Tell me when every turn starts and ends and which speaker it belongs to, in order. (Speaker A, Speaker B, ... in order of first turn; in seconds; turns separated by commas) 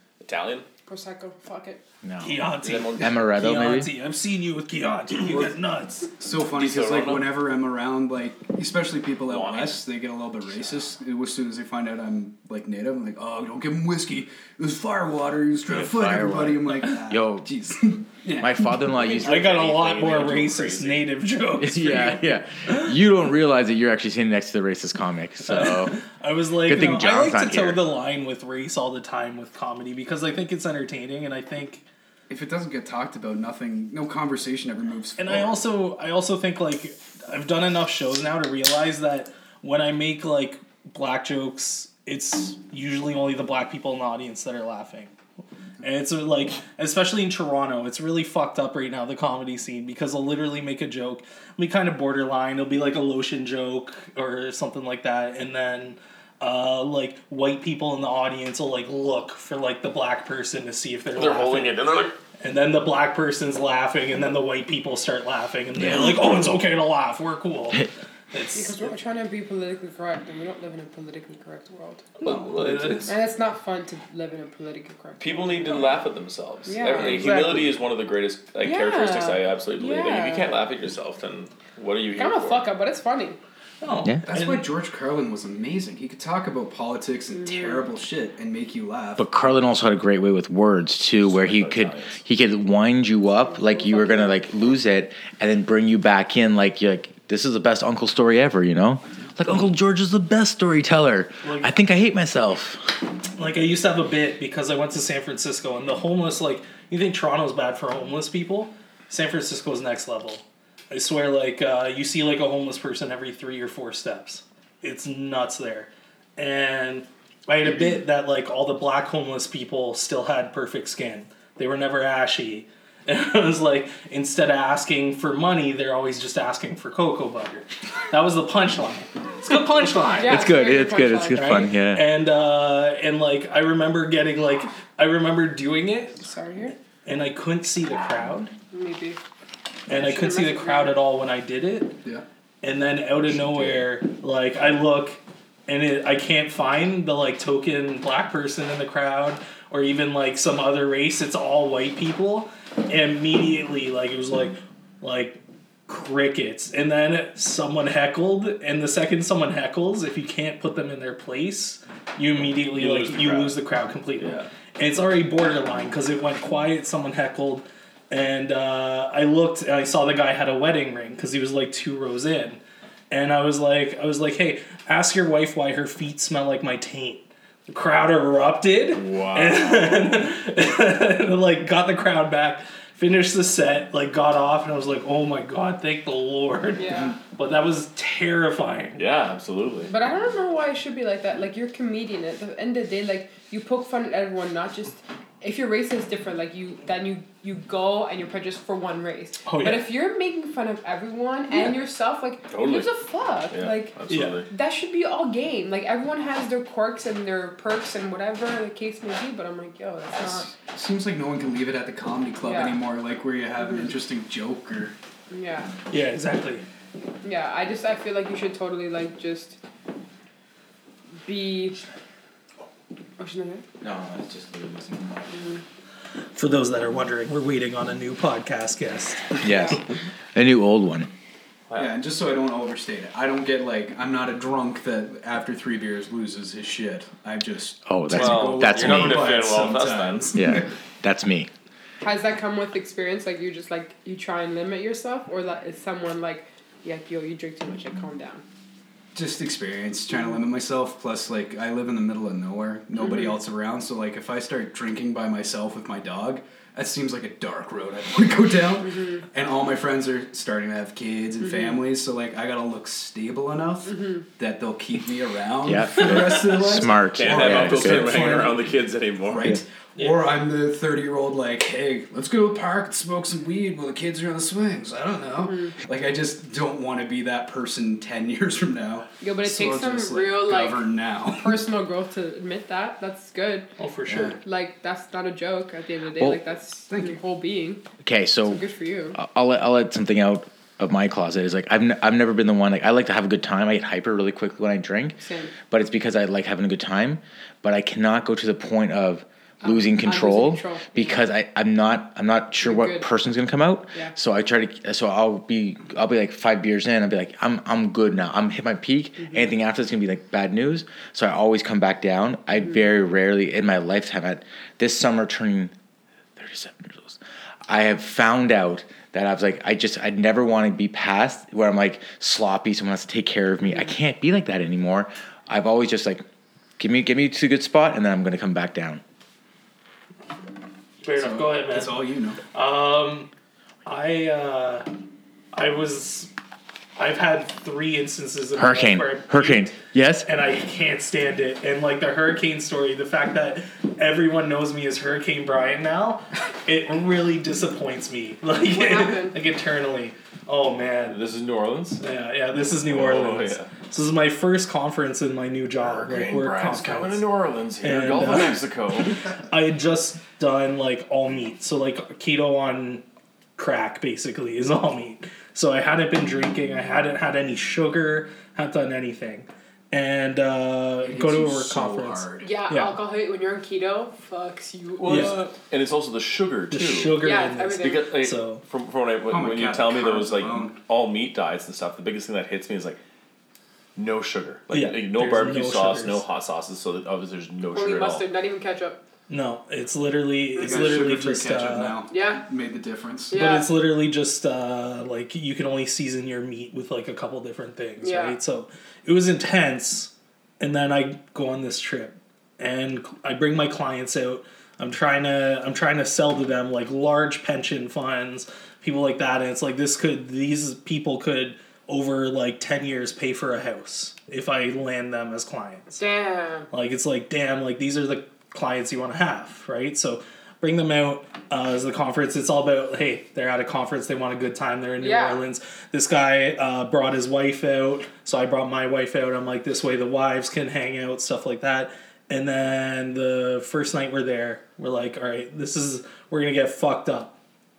Speaker A: 0.2-0.7, Speaker B: 0.8-1.8, Speaker C: 2.0-2.4, Speaker D: 2.2-6.1, Speaker A: 2.6-3.2, Speaker C: 3.0-3.9, Speaker E: 6.2-18.7, Speaker A: 6.5-7.3, Speaker A: 9.3-9.8, Speaker C: 15.7-17.5, Speaker C: 18.4-19.5, Speaker A: 18.9-21.1, Speaker D: 19.2-22.9, Speaker C: 21.6-26.0, Speaker D: 25.4-31.8, Speaker C: 26.6-27.8, Speaker E: 32.3-35.6, Speaker D: 35.2-45.1, Speaker D: 45.8-61.8, Speaker A: 61.1-62.2, Speaker D: 62.4-68.9, Speaker C: 65.8-66.2, Speaker B: 68.5-72.1, Speaker A: 72.2-73.1, Speaker D: 72.2-73.1, Speaker B: 73.1-76.0, Speaker A: 75.2-82.7, Speaker B: 76.7-77.7, Speaker B: 78.6-80.6, Speaker B: 82.2-83.4, Speaker D: 83.8-84.7, Speaker E: 84.2-89.3, Speaker B: 87.4-87.8, Speaker C: 89.2-102.9, Speaker A: 91.2-92.2, Speaker B: 93.4-94.4, Speaker D: 101.4-101.7, Speaker D: 103.4-130.5, Speaker B: 130.1-131.7, Speaker C: 130.2-132.1, Speaker D: 131.3-136.2, Speaker B: 136.2-136.7, Speaker D: 137.0-138.5, Speaker B: 138.7-139.2, Speaker D: 139.9-142.0, Speaker B: 139.9-140.9, Speaker D: 142.6-172.6, Speaker A: 162.5-163.6, Speaker A: 164.2-164.5, Speaker D: 173.1-189.0, Speaker A: 178.9-180.1, Speaker B: 186.8-187.2, Speaker A: 188.9-189.9, Speaker B: 189.9-203.9, Speaker D: 199.4-199.9, Speaker A: 202.5-202.9, Speaker A: 203.5-204.5, Speaker D: 204.1-204.4, Speaker B: 204.5-210.5, Speaker E: 210.2-214.9, Speaker B: 212.4-212.8, Speaker B: 213.6-213.9, Speaker B: 215.3-215.7, Speaker D: 215.9-216.6, Speaker B: 217.2-219.6, Speaker B: 221.2-221.8, Speaker B: 223.2-223.6, Speaker C: 223.8-225.3, Speaker B: 225.3-225.6, Speaker D: 226.3-229.4, Speaker C: 229.4-231.1, Speaker A: 231.7-231.9, Speaker E: 231.7-240.7, Speaker C: 237.8-239.3, Speaker A: 238.1-240.3, Speaker C: 240.3-241.5, Speaker B: 242.0-248.4, Speaker E: 249.1-268.7, Speaker B: 253.0-253.3, Speaker C: 265.6-268.4, Speaker A: 267.1-269.5, Speaker E: 269.2-281.7, Speaker D: 270.0-270.2, Speaker B: 275.4-275.7, Speaker B: 279.2-283.7, Speaker D: 283.8-284.4, Speaker E: 284.1-284.4, Speaker B: 284.4-287.8, Speaker E: 286.9-287.2, Speaker C: 288.0-288.6, Speaker B: 288.4-289.2, Speaker C: 289.1-315.7, Speaker B: 295.2-295.5, Speaker B: 299.6-301.2, Speaker B: 302.6-303.1, Speaker C: 316.4-326.2, Speaker C: 326.8-329.0, Speaker D: 331.0-332.0, Speaker E: 331.1-332.4, Speaker D: 332.5-333.3, Speaker D: 333.9-334.9, Speaker D: 335.5-336.3, Speaker D: 337.0-351.2, Speaker C: 338.6-340.3, Speaker B: 348.6-349.4, Speaker A: 351.1-352.0, Speaker D: 352.0-357.2, Speaker A: 352.9-353.7, Speaker A: 355.8-359.2, Speaker D: 357.8-358.7, Speaker D: 359.4-363.0, Speaker D: 363.6-372.9, Speaker E: 371.0-372.6, Speaker B: 372.4-375.4, Speaker A: 375.0-377.2, Speaker D: 375.1-375.4, Speaker D: 376.7-378.6, Speaker B: 377.2-378.1, Speaker A: 377.8-383.0, Speaker E: 379.3-380.8, Speaker A: 383.9-388.3, Speaker D: 384.7-386.2, Speaker B: 387.7-389.0, Speaker D: 389.3-392.0, Speaker E: 390.6-393.4, Speaker B: 392.1-392.4, Speaker B: 393.3-393.7, Speaker D: 393.3-416.0, Speaker B: 398.0-398.4, Speaker B: 415.9-416.7, Speaker D: 416.7-437.4, Speaker B: 425.0-425.4